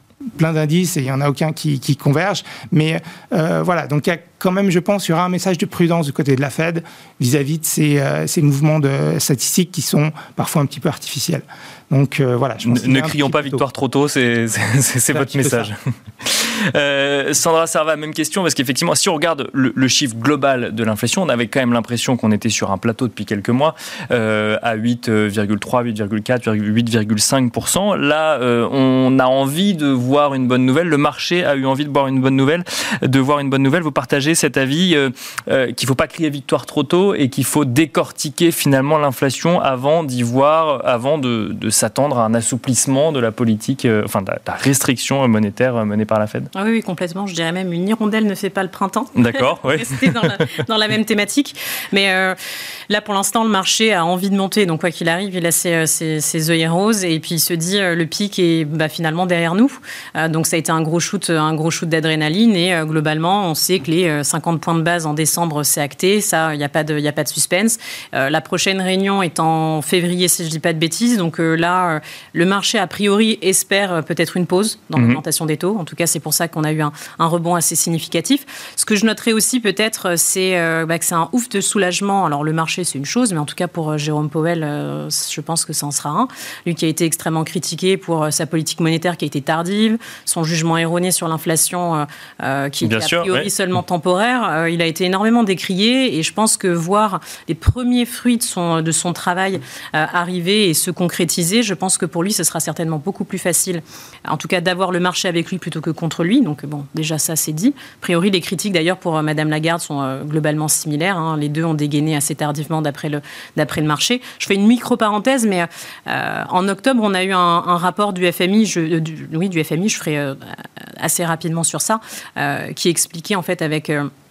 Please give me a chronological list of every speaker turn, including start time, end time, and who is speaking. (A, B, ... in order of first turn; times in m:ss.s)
0:00.4-0:13.6 A
0:12.6-0:46.5 B
0:15.1-0:15.7 A
0:46.5-0:52.4 C
0:49.2-0:50.4 B
0:52.9-2:04.1 C
1:32.8-1:33.5 B